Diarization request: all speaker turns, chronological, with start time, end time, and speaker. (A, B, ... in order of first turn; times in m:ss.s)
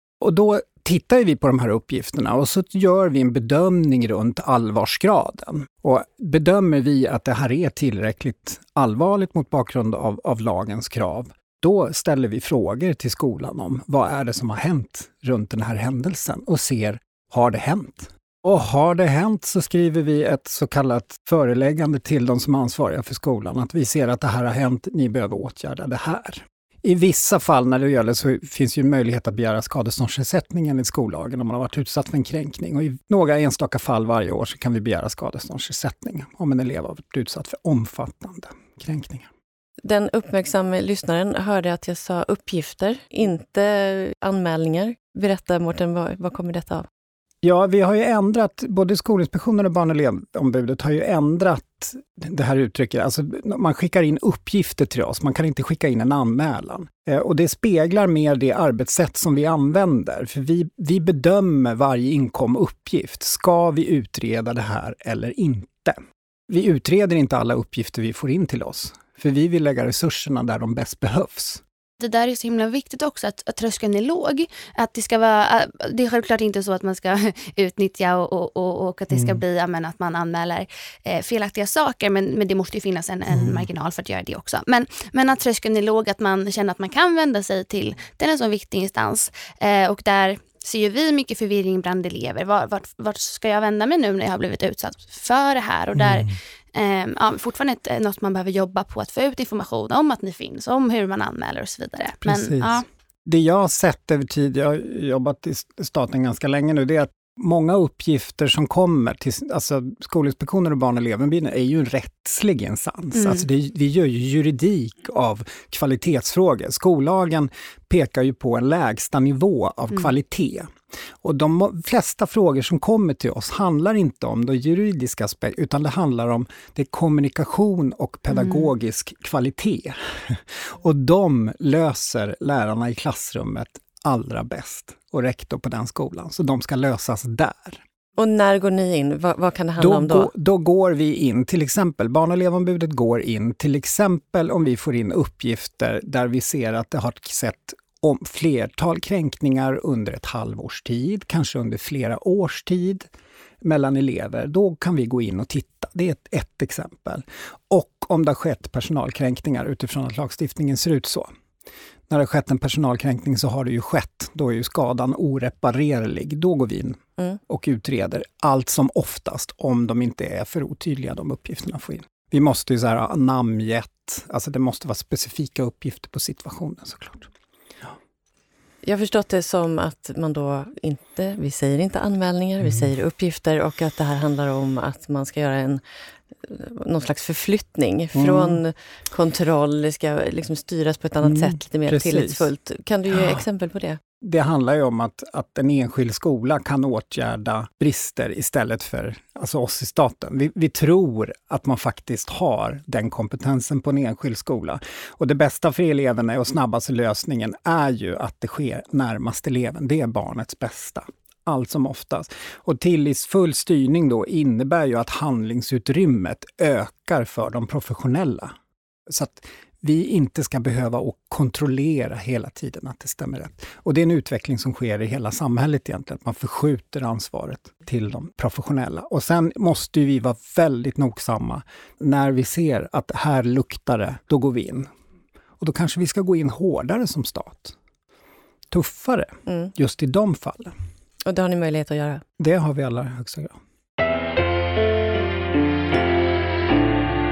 0:00.2-0:39.3 A
0:39.8-0:46.9 B
0:47.4-1:06.0 A
1:06.5-1:11.6 A
1:12.0-1:42.8 C
1:19.1-1:19.4 A
1:23.3-1:23.7 A
1:35.9-1:36.3 A
1:42.2-2:17.8 A
1:53.1-1:53.4 C
2:08.3-2:08.7 C
2:18.2-2:20.3 B
2:19.8-2:33.1 A
2:33.6-2:41.3 A
2:42.1-2:57.3 A
2:58.8-3:05.8 B
3:02.6-3:02.9 A
3:06.4-3:14.0 B
3:08.1-3:08.6 A
3:11.2-3:12.5 A
3:13.1-3:13.4 A
3:14.2-3:38.5 A
3:39.1-3:54.9 A
3:55.6-3:57.8 A
3:58.7-4:00.7 A
3:59.5-3:59.7 B
4:01.2-4:02.2 B
4:02.4-4:03.6 A